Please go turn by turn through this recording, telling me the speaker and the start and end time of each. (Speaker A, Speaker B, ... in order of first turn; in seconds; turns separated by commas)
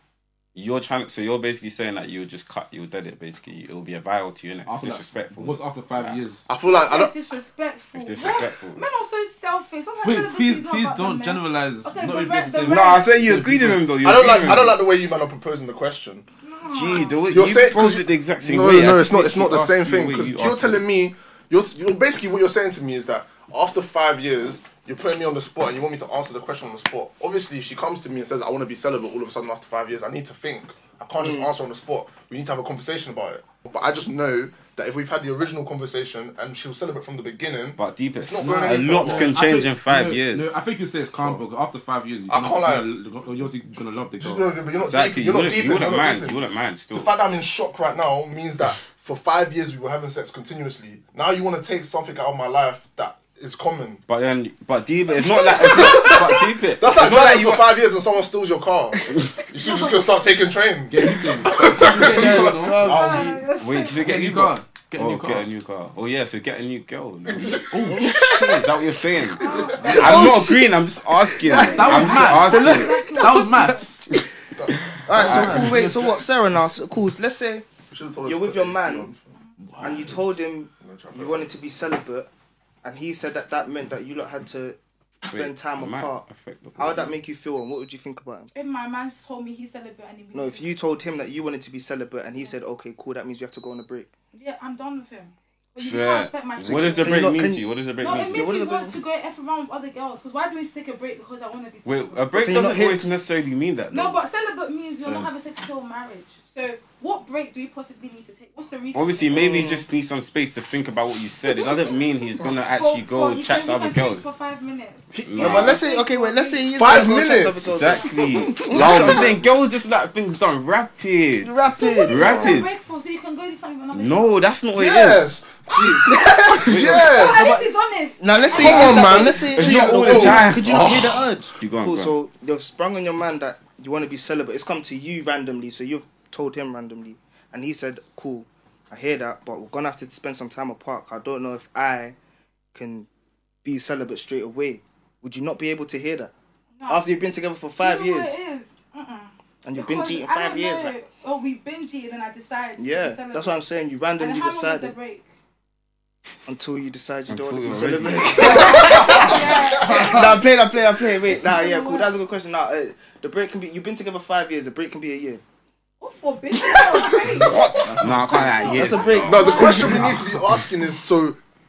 Speaker A: 0.6-6.2, Speaker B: 4.7-6.5, Speaker C: 6.5-7.1, Speaker D: 6.6-13.1, Speaker A: 7.9-8.8, Speaker B: 10.0-13.9, Speaker A: 12.7-14.8, Speaker C: 14.0-16.3, Speaker D: 16.4-17.3, Speaker A: 16.7-20.9, Speaker C: 17.3-39.4, Speaker E: 31.2-31.5, Speaker A: 37.8-40.6, Speaker B: 38.4-44.5, Speaker C: 42.3-42.9, Speaker C: 44.2-54.0, Speaker A: 44.8-47.1, Speaker A: 54.1-57.8, Speaker D: 55.2-56.4, Speaker C: 55.6-62.6, Speaker D: 59.5-60.2, Speaker B: 60.9-63.3, Speaker E: 61.7-63.4, Speaker D: 62.8-64.2, Speaker A: 62.9-67.7, Speaker B: 64.0-65.5, Speaker C: 67.3-68.2, Speaker B: 67.5-68.3, Speaker E: 67.9-68.6, Speaker A: 68.3-73.1, Speaker D: 69.3-70.3, Speaker C: 69.5-70.2, Speaker E: 69.7-70.8, Speaker E: 71.5-73.5, Speaker D: 71.5-73.8, Speaker B: 71.6-74.0, Speaker C: 74.5-75.8, Speaker E: 75.0-77.7, Speaker B: 75.1-76.2, Speaker A: 75.2-75.8, Speaker C: 77.9-79.3, Speaker E: 78.2-79.1, Speaker B: 79.6-80.2, Speaker E: 79.8-82.3, Speaker C: 80.8-81.5, Speaker E: 82.8-86.2, Speaker A: 85.3-87.1, Speaker E: 86.8-88.5, Speaker D: 88.5-90.7, Speaker E: 90.3-94.1, Speaker D: 94.3-97.4, Speaker A: 95.8-98.5, Speaker E: 96.6-99.0, Speaker D: 98.0-102.6, Speaker A: 101.9-104.2, Speaker E: 102.3-103.0, Speaker D: 103.9-109.7, Speaker A: 108.9-114.2, Speaker E: 109.3-109.8, Speaker D: 111.5-117.0, Speaker E: 115.2-119.4, Speaker A: 115.2-115.8, Speaker C: 116.8-117.7, Speaker A: 117.6-122.7, Speaker C: 118.7-119.4, Speaker E: 121.4-122.5, Speaker D: 121.7-124.4, Speaker A: 123.9-125.3, Speaker C: 124.7-127.6, Speaker E: 126.0-127.7, Speaker D: 126.1-129.4, Speaker A: 126.7-127.0, Speaker E: 128.2-142.2, Speaker C: 128.5-131.2, Speaker A: 128.6-132.1, Speaker E: 142.8-143.1, Speaker E: 143.6-146.3, Speaker D: 146.8-147.1, Speaker E: 146.9-148.3, Speaker D: 147.8-153.6, Speaker E: 149.7-150.9, Speaker E: 152.8-155.0, Speaker D: 154.2-155.3, Speaker E: 156.5-165.4, Speaker A: 157.3-159.2, Speaker D: 158.4-160.4, Speaker B: 158.5-160.4, Speaker D: 161.3-162.2, Speaker D: 166.0-170.2, Speaker E: 166.6-167.5, Speaker A: 167.4-170.7, Speaker B: 167.8-168.8, Speaker E: 168.6-170.1, Speaker C: 169.3-171.4